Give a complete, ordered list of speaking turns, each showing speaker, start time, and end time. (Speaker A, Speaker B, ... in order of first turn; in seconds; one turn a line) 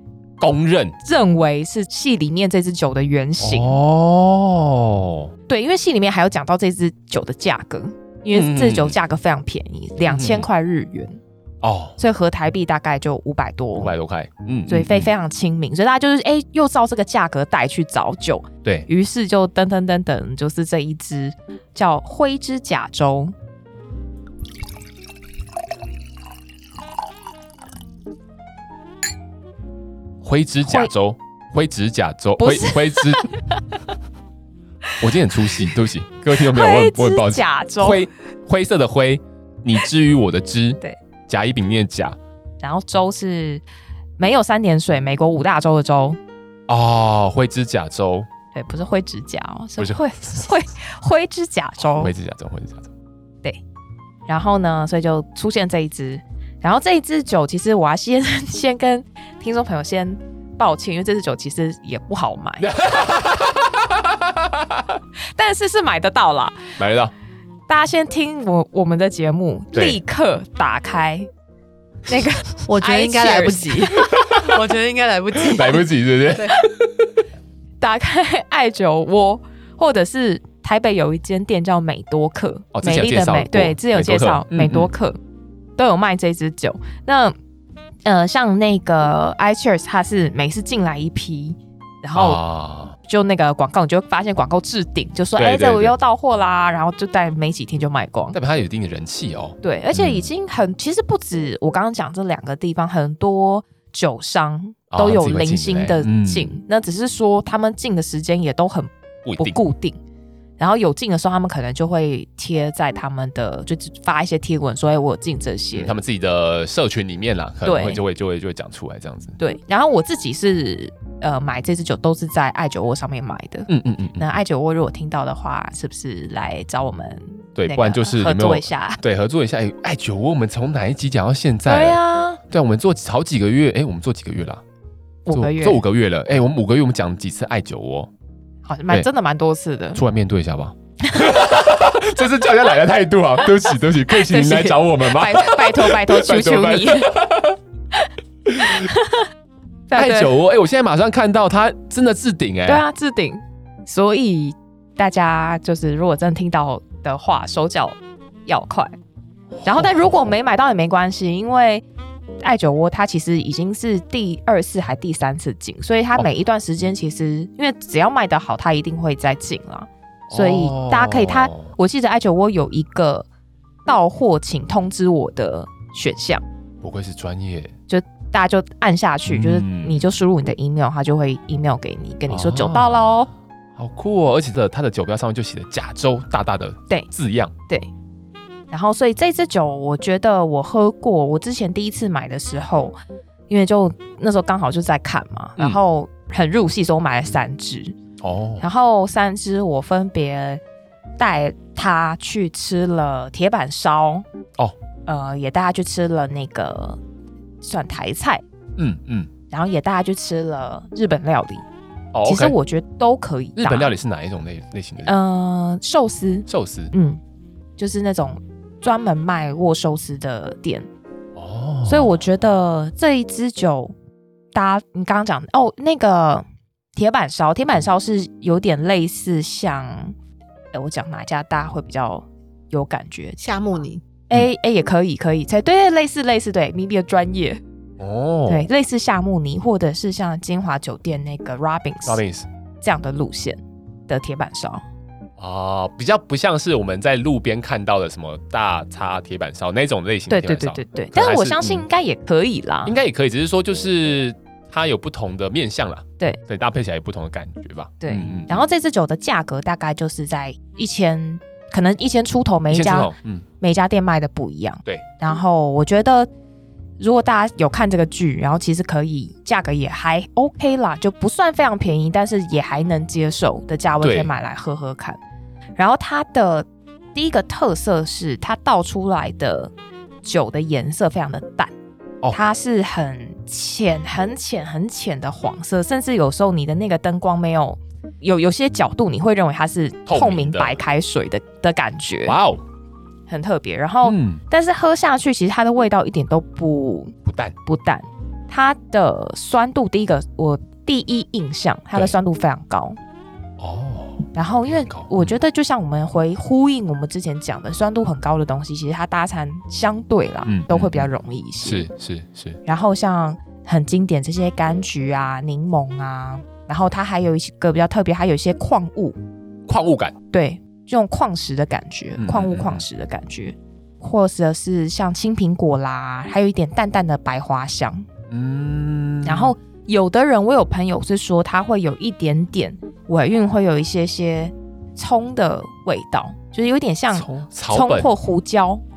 Speaker A: 0.4-0.9
Speaker B: 1.0-3.8
Speaker A: 3.4-5.3
Speaker B: 5.5-11.2
Speaker A: 8.3-9.0
Speaker A: 10.1-10.5
Speaker A: 11.6-12.0
Speaker B: 12.0-13.9
Speaker A: 13.8-15.1
Speaker B: 14.7-23.3
Speaker A: 30.2-33.3
Speaker B: 30.6-30.9
Speaker B: 32.4-33.8
Speaker A: 35.0-42.1
Speaker B: 36.4-38.0
Speaker B: 42.6-43.6
Speaker B: 44.2-46.2
Speaker A: 46.7-48.3
Speaker B: 48.5-52.1
Speaker A: 49.8-50.0
Speaker A: 51.8-52.9
Speaker B: 54.3-62.7
Speaker A: 62.6-65.0
Speaker B: 65.3-66.7
Speaker A: 66.8-67.1
Speaker B: 67.7-71.3
Speaker A: 69.7-70.0
Speaker B: 72.1-74.4
Speaker C: 72.7-75.8
Speaker A: 73.9-74.6
Speaker A: 75.3-76.6
Speaker B: 77.8-85.2
Speaker A: 82.7-84.9
Speaker B: 85.8-87.3
Speaker B: 88.0-92.4
Speaker A: 92.1-92.9
Speaker B: 93.0-98.4
Speaker A: 95.3-96.0
Speaker A: 98.3-100.3
Speaker B: 99.6-110.0
Speaker A: 104.9-106.5
Speaker A: 109.2-109.6
Speaker B: 110.6-116.0
Speaker A: 115.7-119.4
Speaker B: 117.7-118.0
Speaker B: 119.4-129.0
Speaker A: 123.7-124.2
Speaker A: 127.6-134.6
Speaker B: 131.7-132.4
Speaker B: 135.2-135.8
Speaker A: 135.3-138.1
Speaker B: 138.7-140.0
Speaker A: 139.9-147.6
Speaker B: 141.1-141.5
Speaker B: 144.1-147.1
Speaker B: 147.9-149.3
Speaker A: 148.5-148.8
Speaker B: 149.9-150.3
Speaker A: 149.9-152.8
Speaker B: 152.7-158.9
Speaker A: 159.5-160.3
Speaker B: 159.6-161.8
Speaker B: 162.4-173.3
Speaker A: 170.3-171.7
Speaker B: 173.8-176.4
Speaker A: 176.8-177.7
Speaker B: 177.9-183.3
Speaker A: 179.2-180.0
Speaker A: 182.3-183.2
Speaker A: 183.8-187.5
Speaker B: 188.7-192.9
Speaker B: 193.5-197.9
Speaker A: 198.2-198.7
Speaker B: 198.6-200.6
Speaker B: 201.2-204.2
Speaker B: 205.1-207.0
Speaker B: 207.6-208.4
Speaker A: 208.8-209.3
Speaker B: 209.5-211.6
Speaker A: 212.1-212.6
Speaker B: 212.2-213.9
Speaker A: 213.6-215.2
Speaker B: 215.0-217.2
Speaker A: 216.5-216.9
Speaker B: 217.8-220.9
Speaker A: 221.3-222.2
Speaker B: 221.8-223.9
Speaker B: 224.5-230.1
Speaker B: 230.7-233.4
Speaker C: 233.4-234.0
Speaker B: 234.3-237.6
Speaker A: 238.0-238.7
Speaker B: 238.5-242.2
Speaker A: 242.1-242.5
Speaker B: 242.8-244.8
Speaker A: 245.4-251.8
Speaker B: 250.3-252.9
Speaker A: 252.8-258.7
Speaker B: 258.0-266.3
Speaker A: 262.7-263.4
Speaker B: 267.0-275.2
Speaker A: 274.0-274.3
Speaker B: 275.8-279.7
Speaker B: 280.2-281.7
Speaker B: 282.3-292.4
Speaker A: 290.1-290.8
Speaker A: 292.2-292.6
Speaker B: 293.3-303.0
Speaker A: 294.0-294.4
Speaker A: 297.2-297.5
Speaker A: 303.6-305.3
Speaker B: 304.3-311.9
Speaker A: 310.4-312.6
Speaker B: 312.6-319.1
Speaker A: 319.7-320.1
Speaker B: 320.3-328.1
Speaker A: 322.2-322.8
Speaker A: 328.3-329.5
Speaker B: 329.2-338.8
Speaker A: 337.1-338.1